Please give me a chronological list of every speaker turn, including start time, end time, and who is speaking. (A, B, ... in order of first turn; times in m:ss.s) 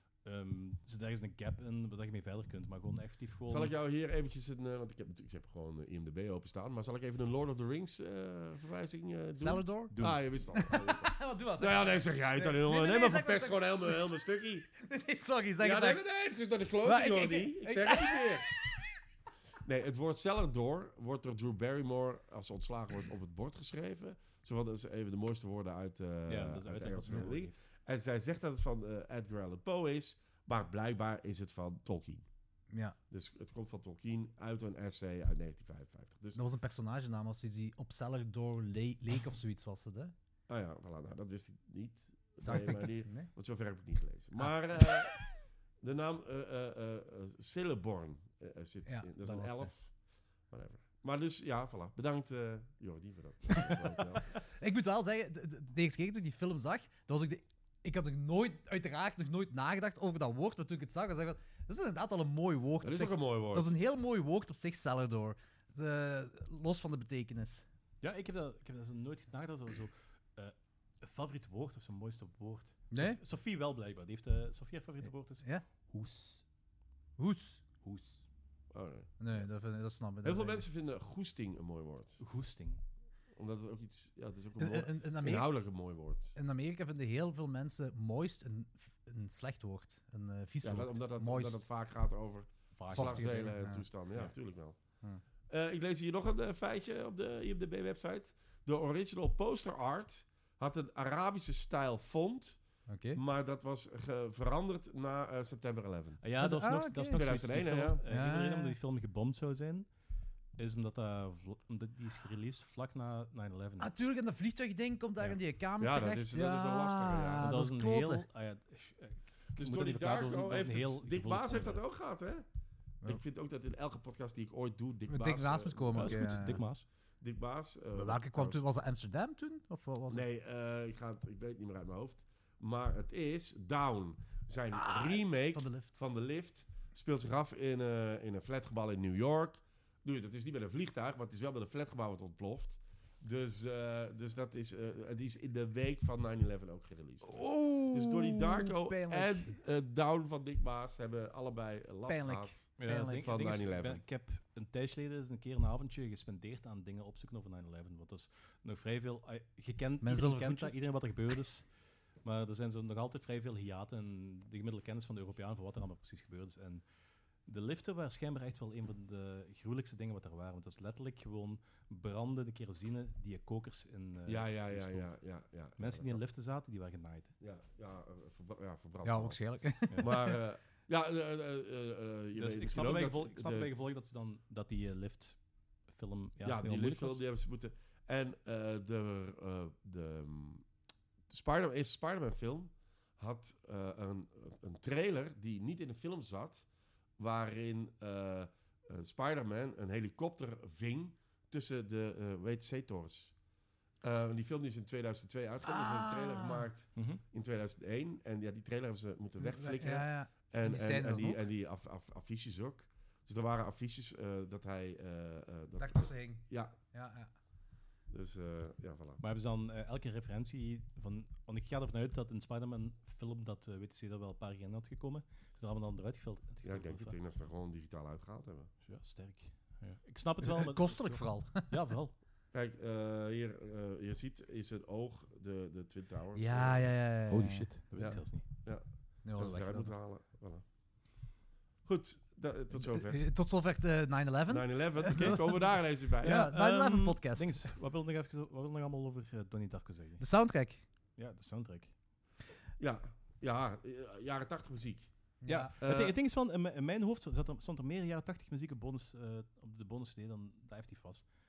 0:00.2-0:03.7 A
0:03.5-0:14.7 B
0:09.4-0:14.2 C
0:09.9-0:10.2 A
0:14.8-0:16.0 C
0:15.6-0:18.5 B
0:16.8-0:18.8 C
0:19.6-0:32.3 B
0:26.3-0:27.6 A
0:32.7-0:33.0 C
0:33.1-0:36.4 B
0:36.3-0:40.1 C
0:40.5-0:49.9 B
0:42.4-0:43.3 C
0:44.4-0:45.2 C
0:48.8-0:49.7 C
0:50.5-0:54.4 B
0:54.4-1:07.6 C
1:02.8-1:03.7 B
1:08.0-1:16.4 A
1:12.9-1:13.2 C
1:17.2-1:17.6 C
1:17.8-1:18.2 A
1:18.7-1:19.2 B
1:19.2-1:20.6 C
1:20.2-1:22.2 B
1:22.2-1:22.8 A
1:23.3-1:26.3 B
1:24.6-1:25.6 C
1:26.3-1:31.6 C
1:30.6-1:46.2 B
1:32.8-1:33.5 A
1:32.9-1:33.8 C
1:42.9-1:43.2 C
1:46.2-1:49.9 A
1:46.4-1:47.2 C
1:47.1-1:48.0 B
1:48.0-1:48.8 C
1:50.6-1:53.9 A
1:53.8-1:58.2 C
1:55.8-1:57.6 B
1:57.4-2:01.8 A
1:59.6-2:02.4 B
2:03.0-2:06.6 B
2:05.1-2:06.6 C
2:05.9-2:06.8 A
2:07.2-2:08.6 B
2:07.9-2:10.2 C
2:10.1-2:34.0 B
2:14.7-2:15.9 C
2:27.2-2:29.6 C
2:32.1-2:33.3 C
2:32.8-2:41.7 A
2:40.0-2:40.7 C
2:42.2-2:46.8 A
2:47.4-2:55.2 A
2:54.2-2:56.2 B
2:55.8-2:57.3 A
2:57.4-3:03.7 B
2:59.0-3:00.4 C
3:02.3-3:07.2 A
3:06.4-3:10.6 B
3:11.3-3:23.4 B
3:24.0-3:36.7 B
3:25.6-3:26.7 C
3:27.0-3:27.2 A
3:29.4-3:31.4 C
3:35.8-3:37.3 C
3:38.1-3:39.2 B
3:39.2-3:47.2 A
3:46.6-3:48.7 B
3:48.8-3:52.1 A
3:50.4-3:51.8 C
3:52.5-3:56.9 B
3:56.3-3:57.7 C
3:57.3-3:58.4 A
3:58.0-4:00.6 B
3:59.2-3:59.9 C
4:01.8-4:03.2 B
4:02.7-4:07.6 C
4:04.5-4:06.4 B
4:05.1-4:10.2 A
4:10.2-4:10.8 C
4:11.2-4:11.9 A
4:12.8-4:16.1 B
4:15.4-4:15.7 C
4:15.5-4:21.3 A